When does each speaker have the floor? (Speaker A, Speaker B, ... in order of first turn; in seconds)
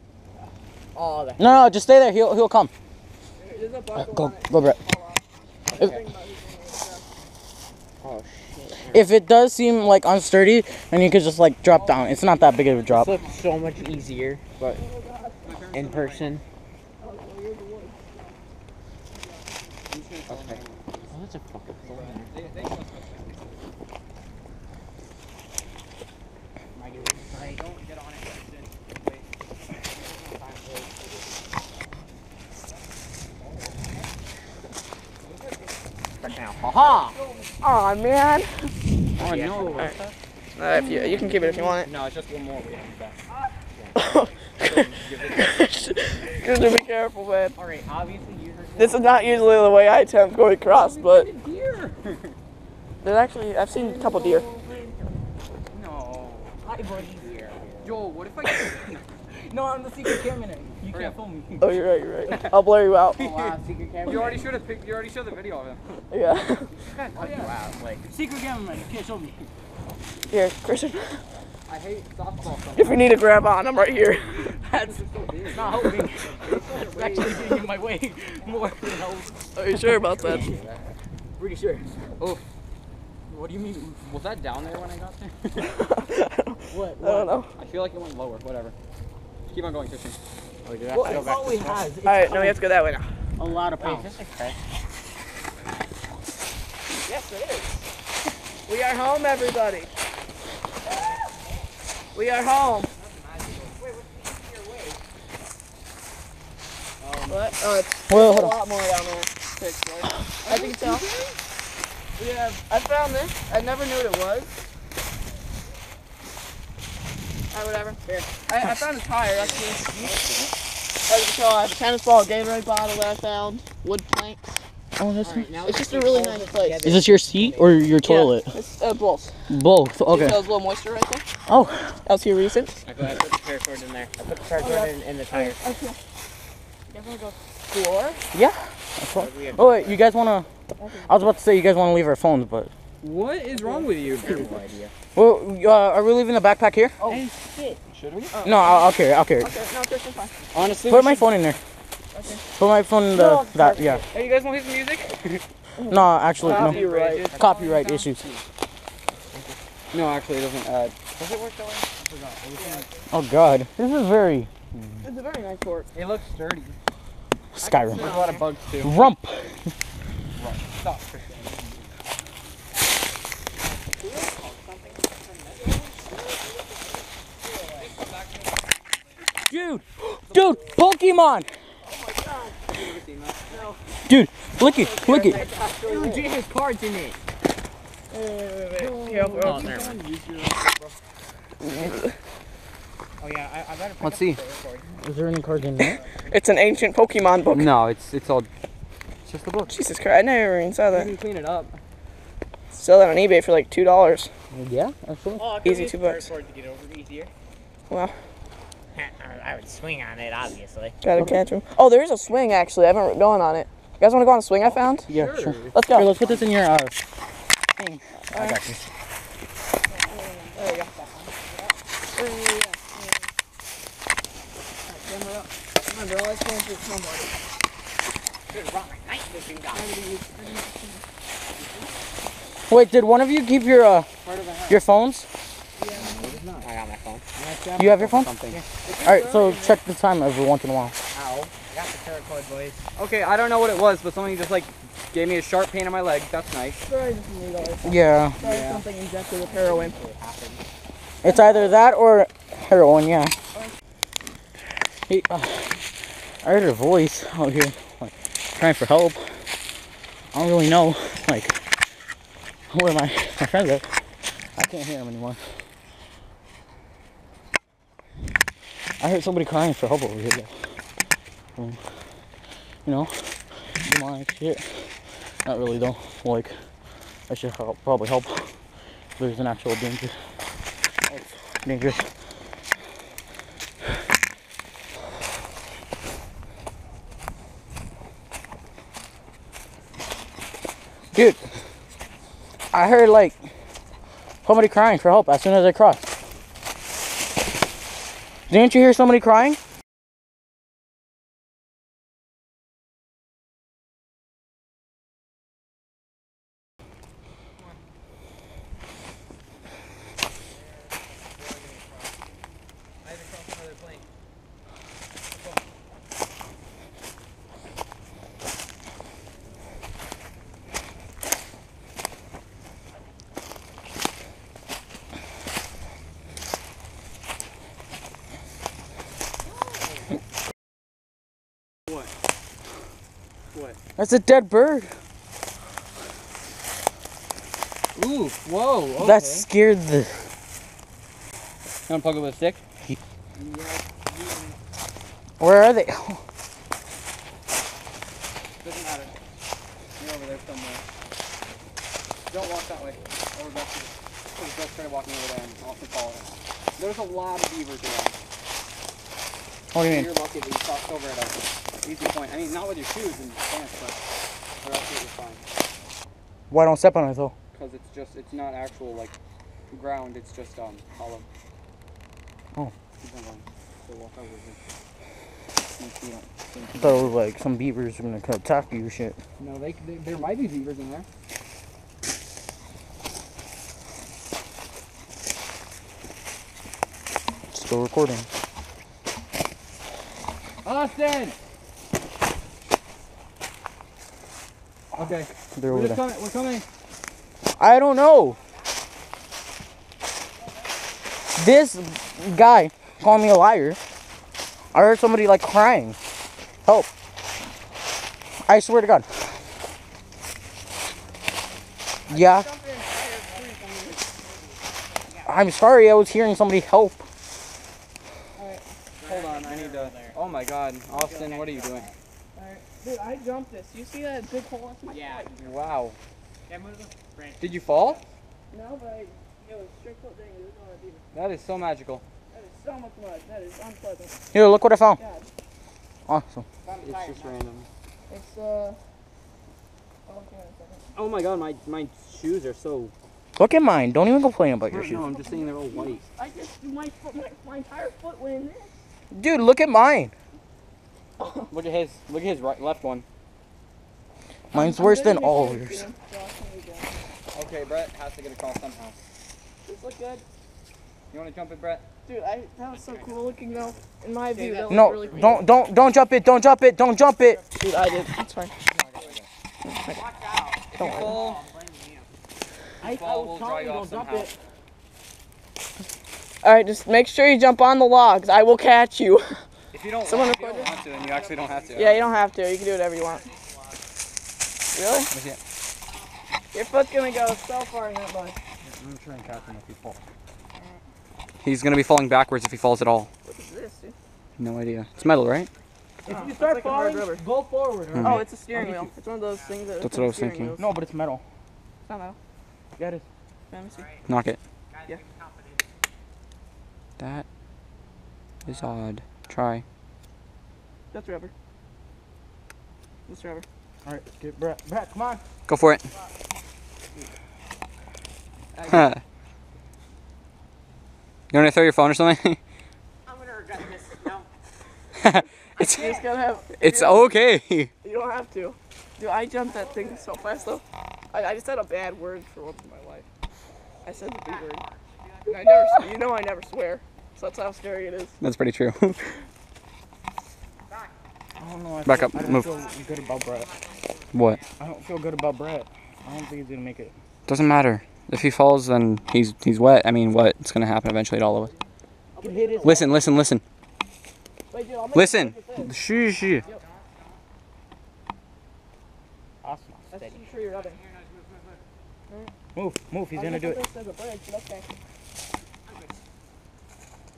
Speaker A: 0.9-1.7, 5.8-6.0, 8.0-9.1, 12.9-14.8, 15.7-16.4, 20.3-22.7, 26.7-27.6, 29.9-31.4, 36.2-37.2, 39.2-40.1, 43.3-44.0, 47.5-49.8, 56.6-58.0, 63.2-64.5, 67.0-68.0, 91.1-91.8, 93.8-94.6, 103.8-105.0, 118.0-118.3, 119.5-120.5, 125.2-128.0, 132.8-135.6, 139.1-140.1, 143.5-144.9, 153.1-154.1, 159.3-159.6, 173.6-176.8, 177.4-177.9, 183.5-183.8, 184.6-187.2, 189.3-190.0, 193.2-194.9, 205.4-207.3, 208.9-211.0, 220.5-221.8, 228.5-230.0, 236.6-237.3, 241.1-242.8, 249.3-250.6, 414.9-415.4, 419.0-420.2, 420.9-421.9, 424.9-425.7, 426.5-428.1, 436.6-437.4, 462.7-465.4, 469.8-472.1, 480.7-482.3, 494.9-495.5, 499.2-499.9, 503.6-504.1, 504.7-505.7, 508.4-508.8, 523.0-524.3, 525.5-526.2, 529.4-530.6, 533.8-535.4, 540.7-541.0, 542.1-544.6, 552.2-552.7, 556.4-557.2, 560.5-561.6, 565.7-565.9
Speaker B: 1.4-2.7, 3.9-4.8, 8.9-13.1, 53.8-54.6, 59.3-61.7, 68.1-69.5, 74.4-80.7, 81.4-82.0, 83.3-84.0, 86.7-87.3, 90.6-92.6, 93.4-94.2, 108.1-108.5, 125.0-125.5, 126.8-128.5, 129.5-130.4, 131.5-132.0, 138.3-140.5, 141.0-142.7, 145.1-147.0, 148.4-149.5, 150.9-151.6, 152.6-154.0, 155.9-156.8, 157.3-158.2, 163.1-165.1, 167.5-168.3, 168.8-169.7, 179.5-181.5, 184.0-185.4, 195.0-196.0, 204.5-205.5, 215.1-217.0, 217.8-218.8, 232.7-234.1, 234.7-235.3, 237.8-238.3, 239.0-240.9, 247.8-248.4, 251.2-253.3, 255.1-255.8, 256.4-259.4, 260.3-261.6, 262.7-265.4, 269.0-270.7, 271.6-272.0, 272.8-274.9, 275.4-276.6, 277.3-278.5, 279.2-280.2, 281.1-282.1, 291.1-291.4, 292.7-293.4, 294.4-296.1, 298.5-299.6, 334.0-334.9, 339.0-340.3, 345.4-346.2, 359.7-360.1, 366.5-367.3, 376.8-379.2, 387.5-388.3, 395.5-396.0, 397.6-398.4, 401.4-403.8, 404.7-406.0, 408.4-409.1, 412.1-412.5, 415.2-417.0, 434.3-435.0, 436.1-436.4, 443.4-445.1, 449.1-450.1, 454.5-455.9, 464.7-467.4, 472.8-474.3, 488.7-490.0, 496.0-498.8, 500.6-501.2, 502.8-503.0, 513.8-515.2, 541.4-543.5, 544.6-546.9, 552.3-552.8, 559.4-560.2, 562.5-563.6
Speaker C: 3.4-7.1, 14.7-15.4, 17.0-18.4, 19.2-19.5, 36.9-38.8, 40.5-41.9, 43.9-47.5, 48.8-51.3, 53.0-54.5, 61.6-63.2, 66.1-66.7, 70.3-71.2, 72.7-74.5, 79.5-80.5, 85.6-87.5, 91.0-91.3, 92.0-93.1, 96.9-97.9, 98.7-99.9, 102.1-102.9, 107.3-111.1, 112.2-114.6, 117.5-120.1, 121.0-124.6, 125.6-126.8, 128.0-129.4, 130.1-131.3, 132.0-132.8, 134.6-136.0, 136.9-138.2, 140.8-141.3, 148.3-150.4, 152.1-152.4, 155.8-157.3, 162.5-163.1, 165.0-165.9, 167.9-168.4, 188.1-189.9, 191.6-192.1, 196.3-197.7, 199.7-201.1, 202.7-204.3, 205.6-206.3, 207.9-208.2, 211.0-215.1, 215.7-216.1, 218.3-218.6, 219.9-220.9, 222.1-223.3, 224.8-227.4, 229.7-231.0, 235.8-236.3, 238.8-239.8, 246.8-250.0, 251.2-251.8, 412.1-414.5, 418.4-418.6, 422.3-425.3, 428.5-431.0, 432.3-434.2, 434.9-435.3, 438.1-438.8, 440.1-440.9, 444.9-448.8, 451.2-451.4, 454.5-457.0, 459.6-460.2, 462.1-465.4, 467.5-468.5, 469.6-470.0, 470.8-471.1, 476.4-479.4, 480.0-480.9, 481.7-483.3, 484.7-485.1, 486.5-488.4, 493.2-493.9, 496.1-497.2, 498.0-500.7, 501.8-502.2, 503.5-503.9, 510.9-511.3, 513.1-513.4, 525.6-527.1, 527.8-533.1, 533.8-534.6, 535.3-538.2, 552.1-553.0, 554.5-555.7, 559.9-560.8, 563.1-564.7
Speaker D: 11.7-14.0, 15.4-16.3, 19.9-21.1, 21.8-23.5, 26.9-29.3, 33.4-33.8, 35.2-35.6, 39.2-39.9, 41.8-43.2, 44.6-45.6, 50.6-52.3, 55.7-56.6, 57.8-59.0, 60.9-61.2, 63.2-65.8, 66.8-67.5, 71.7-74.1, 74.7-77.6, 80.2-80.8, 84.0-85.8, 87.5-88.7, 89.5-90.2, 90.9-91.7, 100.9-101.2, 102.9-103.8, 107.0-107.6, 110.5-111.2, 143.0-144.7, 147.0-148.3, 150.5-151.3, 154.1-155.4, 156.4-158.4, 159.9-162.8, 165.9-166.8, 167.6-169.1, 170.3-171.9, 175.4-175.8, 177.8-179.2, 180.3-180.8, 182.6-183.8, 185.3-186.3, 188.8-191.0, 194.0-194.4, 197.5-198.5, 199.2-199.7, 200.9-201.8, 214.6-216.4, 234.2-234.8, 235.9-236.7, 237.3-238.6, 242.9-246.8, 248.4-248.8, 310.5-312.2, 313.0-314.1, 337.9-339.5, 341.9-342.6, 343.3-344.6, 348.6-349.1, 350.0-350.8, 352.3-358.1, 359.8-364.0, 364.6-365.4, 367.5-369.1, 369.7-371.3, 373.0-374.6, 375.6-377.1, 379.4-381.1, 390.6-391.4, 394.9-396.6, 419.0-421.9, 425.4-426.0, 427.4-428.0, 431.1-432.0, 436.8-437.7, 440.9-442.9, 444.6-446.0, 451.5-453.1, 457.3-459.0, 461.1-461.8, 468.8-469.2, 470.7-471.4, 472.8-474.3, 479.7-482.0, 485.1-485.4, 491.4-493.1, 494.4-495.5, 497.9-498.2, 499.8-500.6, 504.1-504.4, 507.0-507.2, 508.4-509.6, 515.5-515.9, 518.7-519.0, 521.3-522.4, 525.0-525.9, 526.6-527.7, 538.2-539.2, 541.9-542.5, 544.1-544.4, 547.3-551.5, 552.6-553.4, 554.9-556.4